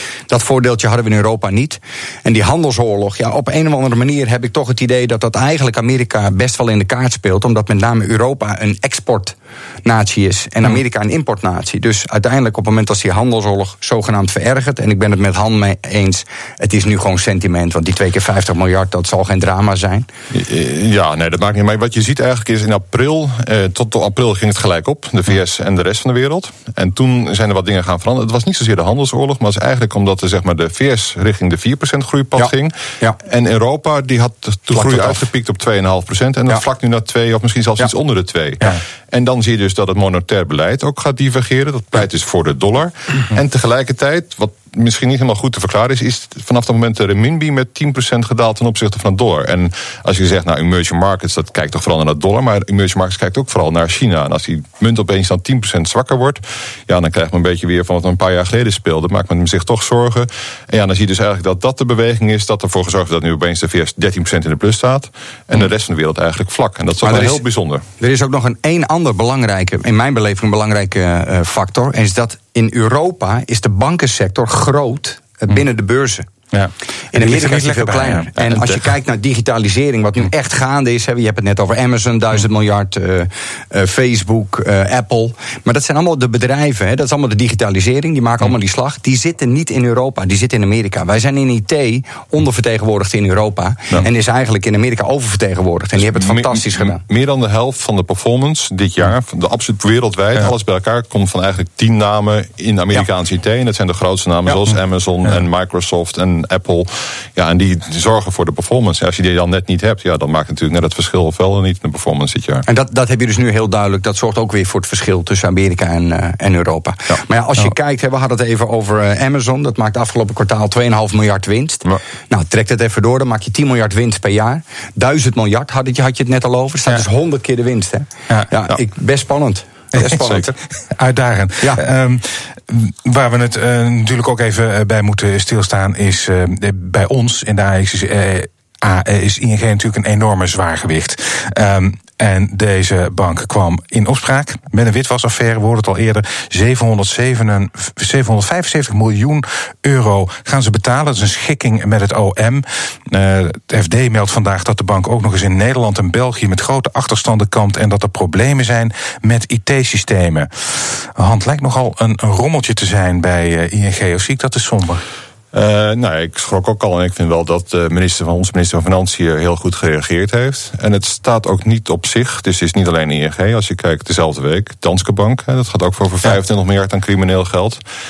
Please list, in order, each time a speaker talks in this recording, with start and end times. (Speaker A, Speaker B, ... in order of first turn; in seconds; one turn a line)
Speaker A: 0.3-20.1
Speaker B: 20.3-67.8
Speaker A: 32.4-33.2
Speaker A: 34.7-35.2
Speaker A: 67.0-67.4
Speaker A: 68.0-76.2
Speaker C: 76.5-78.3
Speaker A: 77.1-97.0
Speaker B: 78.4-78.8
Speaker B: 96.0-112.6
Speaker A: 112.7-130.5
Speaker C: 129.9-165.0
Speaker B: 130.0-130.5
Speaker B: 165.5-177.8